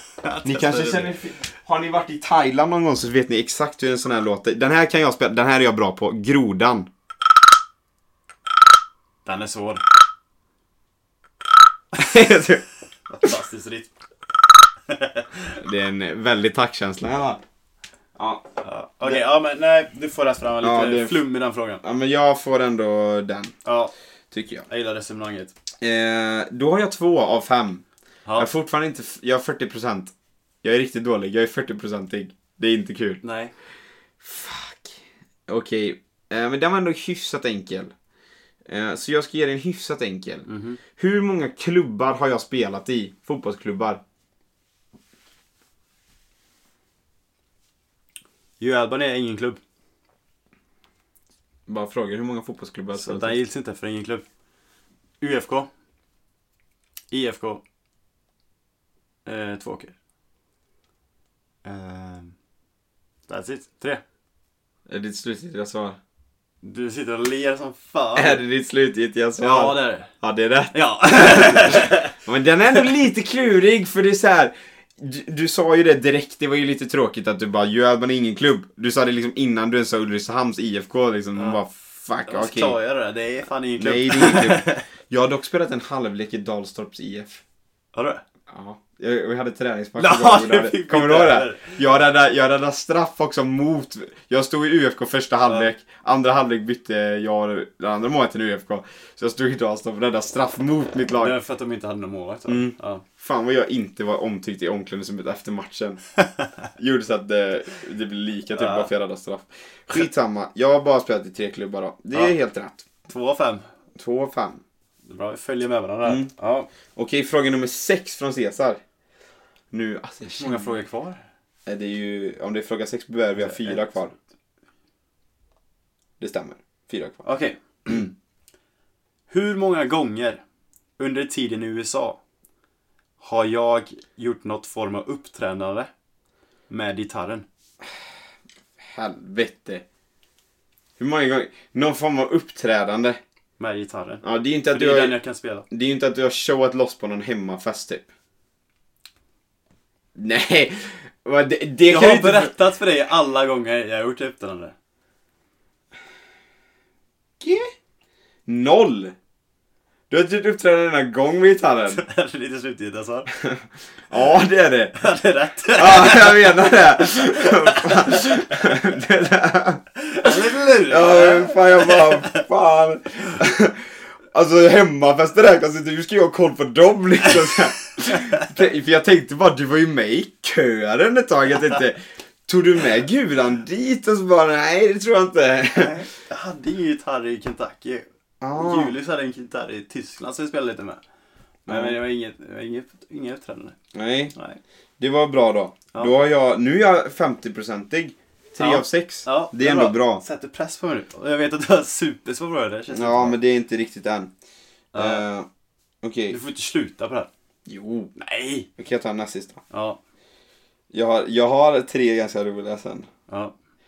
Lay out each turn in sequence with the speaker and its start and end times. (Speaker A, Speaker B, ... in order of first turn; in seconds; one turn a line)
Speaker A: 0.2-1.1
Speaker B: 0.4-6.9
Speaker A: 9.2-9.8
Speaker B: 11.9-12.6
Speaker A: 13.1-13.9
Speaker A: 14.9-15.6
Speaker B: 15.6-17.4
Speaker B: 18.2-18.5
Speaker A: 18.6-21.8
Speaker B: 20.6-21.2
Speaker B: 21.8-23.5
Speaker A: 23.6-23.9
Speaker B: 24.3-24.6
Speaker A: 24.7-25.5
Speaker B: 25.8-27.8
Speaker B: 28.4-33.2
Speaker A: 33.2-33.5
Speaker B: 34.2-35.0
Speaker B: 35.5-37.9
Speaker B: 38.7-44.0
Speaker A: 40.5-40.8
Speaker A: 48.6-49.6
Speaker B: 51.7-53.4
Speaker A: 52.9-54.2
Speaker A: 55.2-55.7
Speaker A: 57.1-57.6
Speaker A: 59.3-59.9
Speaker A: 61.6-62.4
Speaker A: 63.3-64.0
Speaker B: 64.9-66.0
Speaker A: 66.6-68.4
Speaker B: 68.2-82.8
Speaker A: 69.4-70.1
Speaker A: 70.7-72.2
Speaker A: 81.4-81.6
Speaker A: 82.2-84.8
Speaker B: 83.8-87.4
Speaker A: 87.9-88.2
Speaker B: 88.5-101.4
Speaker A: 90.0-91.8
Speaker A: 101.2-103.0
Speaker B: 102.5-106.0
Speaker B: 106.8-112.9
Speaker A: 108.5-108.9
Speaker A: 113.1-113.6
Speaker B: 114.0-114.6
Speaker A: 115.1-116.7
Speaker B: 116.0-116.3
Speaker B: 117.0-118.8
Speaker B: 119.7-120.8
Speaker A: 120.4-121.2
Speaker B: 121.7-124.1
Speaker A: 123.3-124.1
Speaker B: 126.2-127.2
Speaker A: 127.2-128.1
Speaker A: 129.3-130.4
Speaker A: 131.0-132.2
Speaker A: 133.2-135.9
Speaker A: 136.7-137.5
Speaker B: 138.8-139.8
Speaker B: 141.0-143.2
Speaker A: 143.6-145.7
Speaker B: 144.2-145.2
Speaker B: 145.7-148.1
Speaker B: 150.2-152.5
Speaker A: 151.9-154.8
Speaker B: 157.4-157.7
Speaker B: 158.5-159.2
Speaker B: 160.1-162.0
Speaker A: 161.9-163.3
Speaker B: 163.4-165.0
Speaker A: 165.0-168.8
Speaker B: 165.8-186.0
Speaker A: 170.0-172.4
Speaker A: 177.3-177.5
Speaker A: 178.1-178.5
Speaker A: 185.8-191.0
Speaker B: 188.4-188.9
Speaker B: 191.7-192.0
Speaker A: 191.7-193.8
Speaker B: 193.9-194.3
Speaker A: 194.3-194.6
Speaker B: 195.0-200.2
Speaker A: 198.6-203.4
Speaker B: 202.9-204.3
Speaker A: 204.9-205.2
Speaker B: 204.9-205.5
Speaker B: 206.0-206.4
Speaker A: 206.3-207.3
Speaker B: 207.7-208.1
Speaker A: 208.2-208.7
Speaker B: 208.8-209.6
Speaker A: 209.7-210.0
Speaker B: 210.9-213.1
Speaker A: 213.3-213.5